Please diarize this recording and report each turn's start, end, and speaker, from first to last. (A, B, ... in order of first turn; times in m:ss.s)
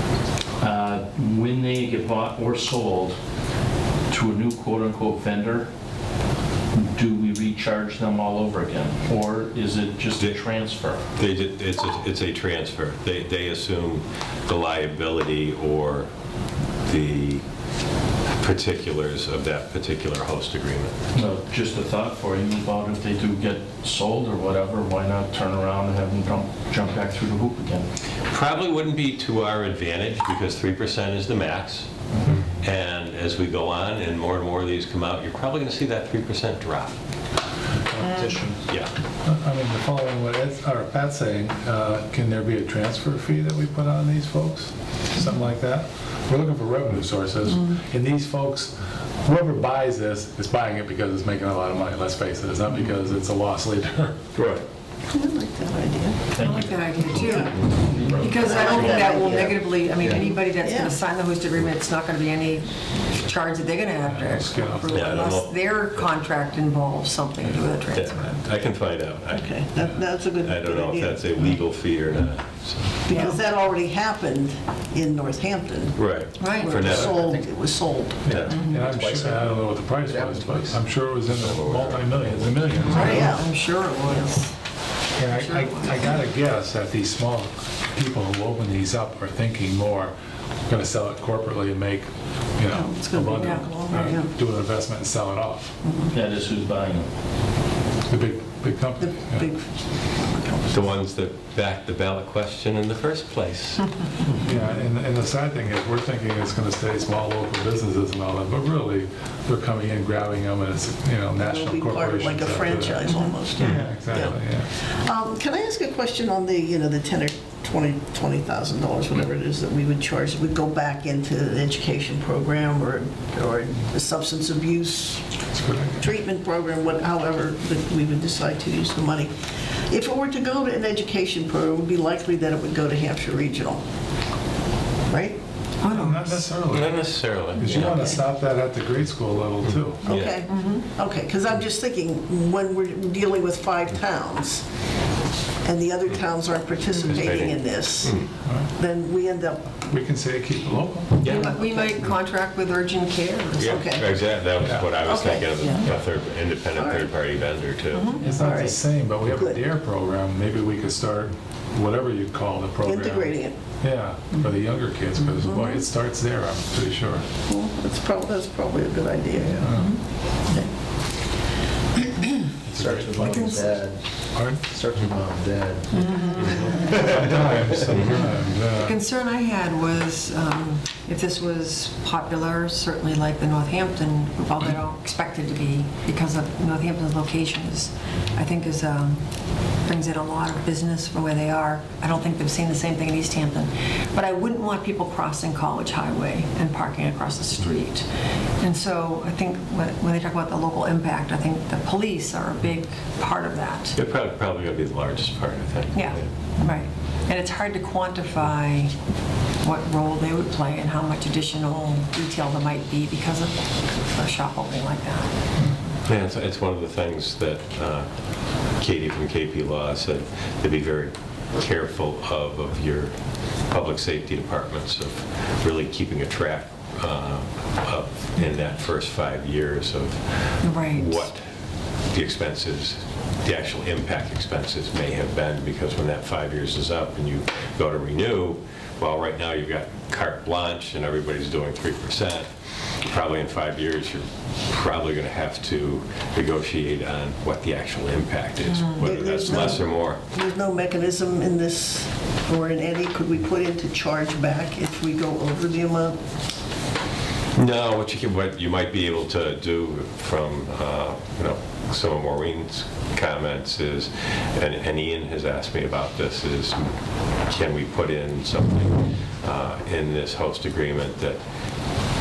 0:00.6-0:03.2 A
0:04.1-0:05.7 A
0:06.7-0:11.0 A
0:11.2-0:16.1 B
0:16.8-0:17.4 B
0:18.4-0:21.0 B
0:21.1-0:27.9 A
0:28.3-0:31.9 B
0:32.6-0:37.0 B
0:38.0-0:38.6 A
0:39.2-0:54.3 C
0:55.1-0:56.3 D
0:56.3-0:59.1 A
0:56.4-1:08.4 E
0:57.2-0:57.6 D
0:58.2-1:01.0 D
0:59.9-1:00.4 F
1:04.0-1:05.0 C
1:04.9-1:06.0 B
1:07.9-1:09.6 B
1:09.3-1:11.6 D
1:10.4-1:13.3 B
1:13.0-1:18.5 D
1:13.1-1:13.4 E
1:16.0-1:17.2 B
1:16.4-1:16.8 E
1:16.7-1:17.5 F
1:18.2-1:23.4 C
1:18.3-1:18.6 B
1:18.3-1:20.8 F
1:18.5-1:18.8 E
1:21.3-1:23.0 B
1:22.8-1:24.5 E
1:23.0-1:24.4 D
1:25.2-1:30.1 C
1:25.3-1:26.2 E
1:30.7-1:35.7 C
1:32.7-1:34.3 D
1:33.3-1:33.7 E
1:35.8-1:36.1 D
1:36.1-1:37.1 A
1:38.1-1:39.5 C
1:39.0-1:39.6 D
1:40.2-1:40.9 D
1:40.7-1:43.9 B
1:44.4-1:54.7 C
1:51.4-1:54.4 D
1:53.1-1:53.4 E
1:54.9-2:05.2 D
2:05.5-2:06.1 C
2:06.0-2:09.3 D
2:09.9-2:13.8 D
2:15.1-2:15.4 D
2:15.8-2:16.4 E
2:15.9-2:17.0 C
2:16.1-2:18.2 B
2:17.6-2:20.0 C
2:17.8-2:18.2 D
2:20.0-2:24.6 D
2:20.1-2:20.4 B
2:20.4-2:20.9 E
2:25.6-2:28.3 D
2:27.1-2:28.3 B
2:28.4-2:28.7 C
2:28.8-2:29.7 D
2:29.9-2:31.2 C
2:31.2-2:31.5 B
2:31.2-2:32.1 D
2:31.3-2:33.9 E
2:33.6-2:38.2 B
2:33.7-2:34.1 D
2:34.6-2:34.9 C
2:35.0-2:36.0 D
2:36.8-2:37.1 D
2:37.9-2:38.3 E
2:38.2-2:47.2 C
2:38.3-2:39.6 D
2:42.8-2:43.5 D
2:45.4-2:45.8 D
2:47.5-2:49.8 D
2:49.6-2:49.9 C
2:52.6-2:53.8 C
2:52.7-2:54.0 F
2:54.3-2:54.6 C
2:54.6-2:58.2 F
2:55.9-2:57.0 E
2:56.9-2:59.0 C
2:57.9-2:58.2 B
2:58.8-3:09.2 E
3:09.8-3:18.1 E
3:18.6-3:24.0 E
3:24.0-3:26.3 B
3:25.9-3:28.9 E
3:29.6-3:35.4 E
3:36.1-3:38.1 B
3:38.7-3:43.1 B
3:43.7-3:51.4 B
3:50.6-3:51.3 E
3:52.1-4:10.2 B
4:08.7-4:09.1 E
4:09.0-4:16.2 D
4:17.5-4:26.9 B
4:27.5-4:31.4 B